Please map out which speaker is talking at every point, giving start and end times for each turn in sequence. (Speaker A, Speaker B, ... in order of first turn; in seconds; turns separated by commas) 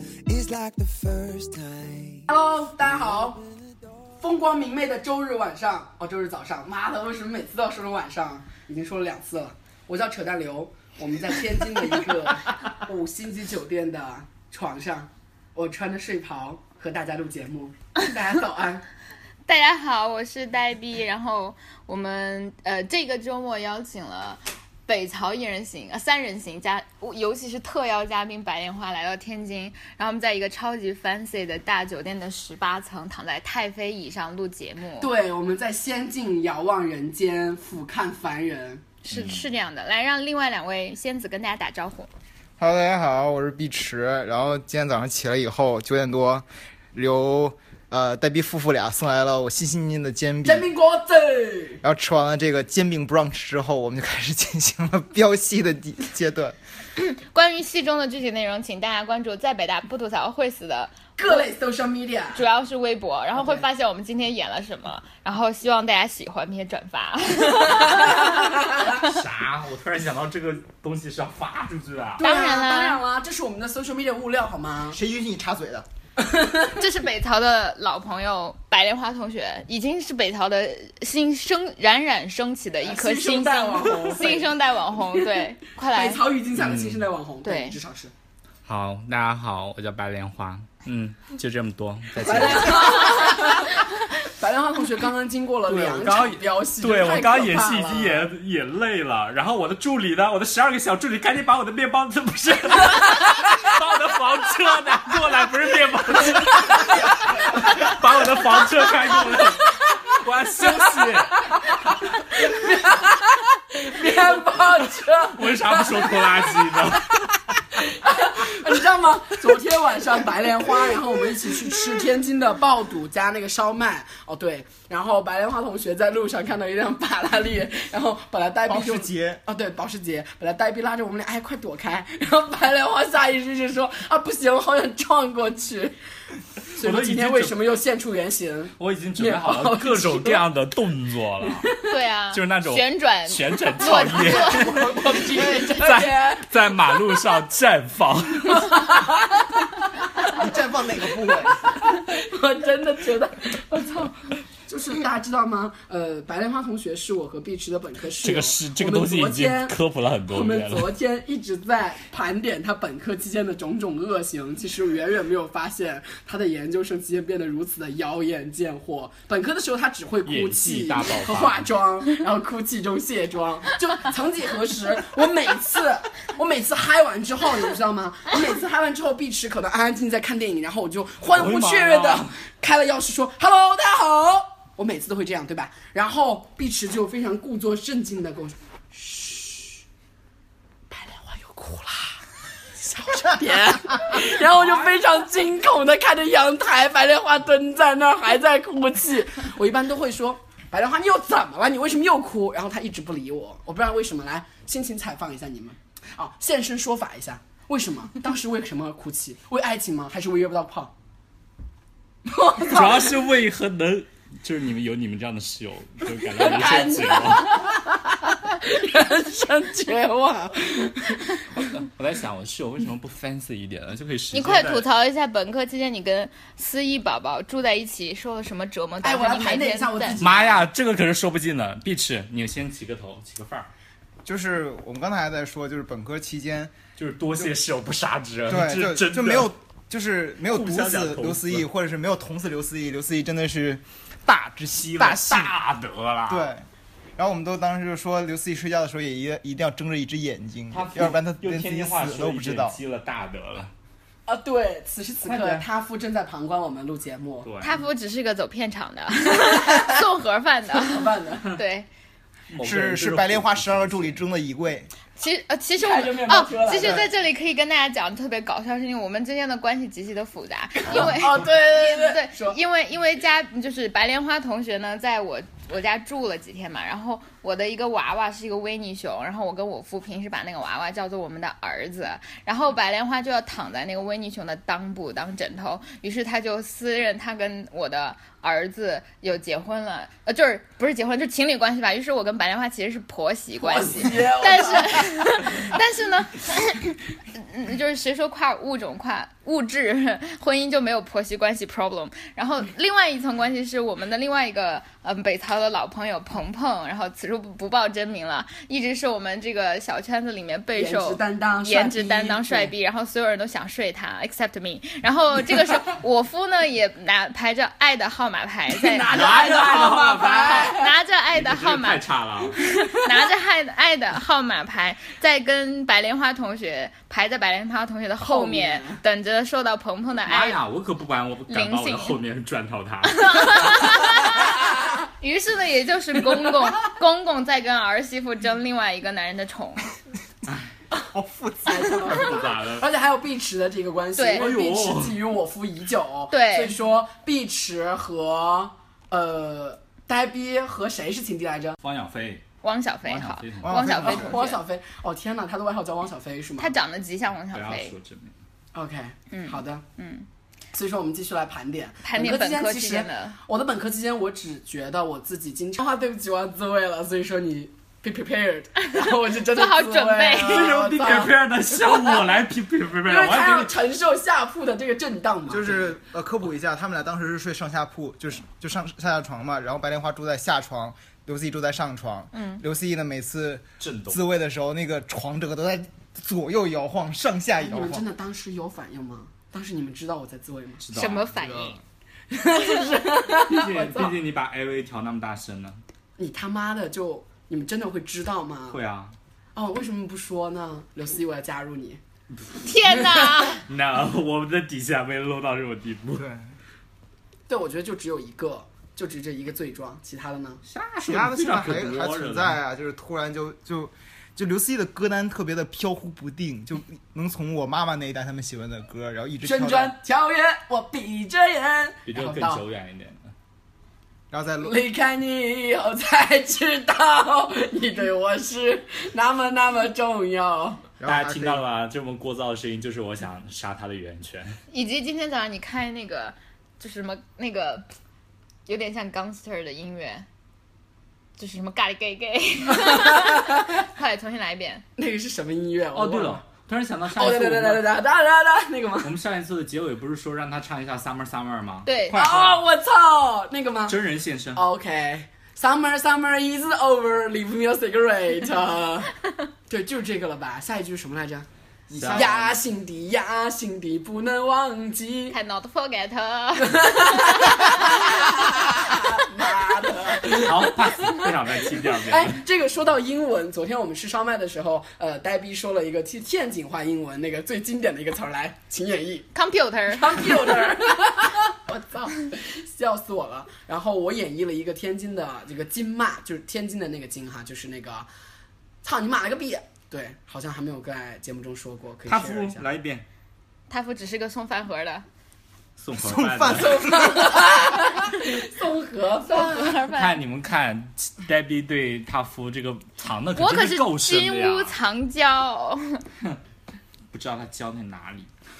Speaker A: 0.3-4.2, Speaker B: 2.3-3.4, Speaker B: 4.2-18.8, Speaker C: 19.5-35.1, Speaker B: 35.0-38.9, Speaker C: 39.0-42.1, Speaker D: 39.1-39.5, Speaker E: 42.6-50.7, Speaker B: 50.4-51.8, Speaker E: 51.8-56.6, Speaker C: 57.0-61.5, Speaker B: 61.2-62.4, Speaker C: 62.3-69.0, Speaker B: 68.2-68.9, Speaker D: 69.0-72.3, Speaker B: 72.2-75.0, Speaker C: 72.2-73.0, Speaker E: 74.9-75.9, Speaker B: 76.2-76.8, Speaker C: 76.8-86.2, Speaker B: 82.8-84.5, Speaker B: 85.1-88.1, Speaker D: 86.6-87.1, Speaker C: 87.4-87.8, Speaker D: 88.7-93.4, Speaker B: 92.2-98.3, Speaker C: 93.1-93.5, Speaker D: 95.7-111.5, Speaker B: 110.6-110.9, Speaker B: 112.3-117.0, Speaker D: 115.3-117.3, Speaker B: 117.7-136.0, Speaker E: 128.7-129.4, Speaker B: 136.7-140.4, Speaker D: 136.8-137.6, Speaker D: 138.8-141.7, Speaker B: 141.5-141.8, Speaker C: 141.9-144.8, Speaker D: 142.3-148.9, Speaker B: 143.8-146.5, Speaker E: 144.7-145.7, Speaker B: 148.6-149.7, Speaker E: 150.3-151.7, Speaker B: 151.7-159.8, Speaker D: 158.2-160.9, Speaker B: 160.3-189.8, Speaker D: 170.2-171.7, Speaker D: 181.2-182.3, Speaker B: 190.9-192.2, Speaker B: 192.8-210.9, Speaker D: 194.4-195.0, Speaker B: 212.2-213.2, Speaker D: 212.6-217.6, Speaker B: 216.2-221.7, Speaker D: 221.8-224.9, Speaker C: 224.3-230.2, Speaker B: 229.0-230.7, Speaker D: 230.2-233.7, Speaker E: 234.2-236.8, Speaker D: 237.0-239.5, Speaker E: 238.5-245.6, Speaker D: 240.4-241.7, Speaker D: 244.8-246.5, Speaker E: 246.3-252.8, Speaker D: 250.7-253.7, Speaker B: 254.3-257.5, Speaker E: 255.3-255.6, Speaker D: 257.4-257.8, Speaker C: 257.6-261.9, Speaker B: 259.4-259.9, Speaker B: 260.7-261.6, Speaker D: 262.5-264.2, Speaker E: 262.6-264.9, Speaker C: 265.2-319.4, Speaker B: 265.8-267.1, Speaker B: 270.8-272.6, Speaker D: 270.9-271.2, Speaker B: 293.6-295.6, Speaker B: 310.8-312.7, Speaker B: 318.7-320.9, Speaker D: 319.1-320.8, Speaker C: 320.5-322.1, Speaker D: 321.3-322.6, Speaker C: 322.6-330.6, Speaker B: 328.2-329.0, Speaker D: 330.3-333.8, Speaker C: 331.5-332.2, Speaker C: 333.0-339.9, Speaker B: 334.3-334.9, Speaker E: 341.1-342.3, Speaker B: 341.7-351.8, Speaker D: 342.1-342.9, Speaker C: 344.2-344.5, Speaker D: 344.4-345.2, Speaker C: 346.3-346.8, Speaker D: 351.8-352.4, Speaker C: 352.6-354.6, Speaker D: 353.0-353.8, Speaker E: 353.6-354.4, Speaker B: 354.0-356.7, Speaker C: 356.6-357.9, Speaker D: 357.5-358.3, Speaker B: 358.7-359.9, Speaker C: 359.3-360.3, Speaker B: 360.7-372.2, Speaker C: 362.0-363.4, Speaker C: 369.0-370.8, Speaker D: 370.5-373.8, Speaker B: 373.1-375.9, Speaker E: 375.5-388.1, Speaker C: 382.3-382.6, Speaker D: 383.8-384.2, Speaker B: 387.6-390.8, Speaker D: 390.8-391.7, Speaker C: 390.9-391.8, Speaker B: 392.3-394.2, Speaker D: 393.5-395.8, Speaker B: 396.2-398.8, Speaker D: 398.7-399.2, Speaker B: 399.6-402.0, Speaker C: 402.6-403.6, Speaker D: 403.7-406.3, Speaker E: 406.1-406.5, Speaker B: 407.5-410.6, Speaker D: 410.7-412.6, Speaker E: 411.0-420.0, Speaker B: 419.4-422.6, Speaker D: 422.1-423.3, Speaker E: 424.3-424.8, Speaker B: 424.6-430.9, Speaker E: 431.0-431.6, Speaker D: 431.1-434.6, Speaker C: 434.7-437.9, Speaker C: 438.7-440.3, Speaker C: 441.4-444.8, Speaker B: 442.8-443.6, Speaker B: 445.0-446.4, Speaker D: 445.9-447.9, Speaker B: 447.1-449.1, Speaker D: 449.0-452.6, Speaker C: 451.9-452.3, Speaker B: 452.1-454.0, Speaker D: 453.9-454.6, Speaker B: 454.6-459.1, Speaker B: 459.7-461.5, Speaker E: 461.9-462.6, Speaker D: 461.9-462.3, Speaker B: 462.1-465.4, Speaker C: 465.3-468.4, Speaker B: 466.6-471.2, Speaker D: 470.3-472.4, Speaker B: 472.0-479.3, Speaker C: 479.3-480.4, Speaker B: 479.9-488.1, Speaker B: 488.8-492.7, Speaker D: 492.1-493.1, Speaker C: 493.7-495.1, Speaker D: 495.8-497.0, Speaker E: 496.0-497.6, Speaker B: 496.5-499.8, Speaker C: 499.3-500.2, Speaker D: 499.9-504.7, Speaker C: 503.4-506.0, Speaker D: 507.1-508.3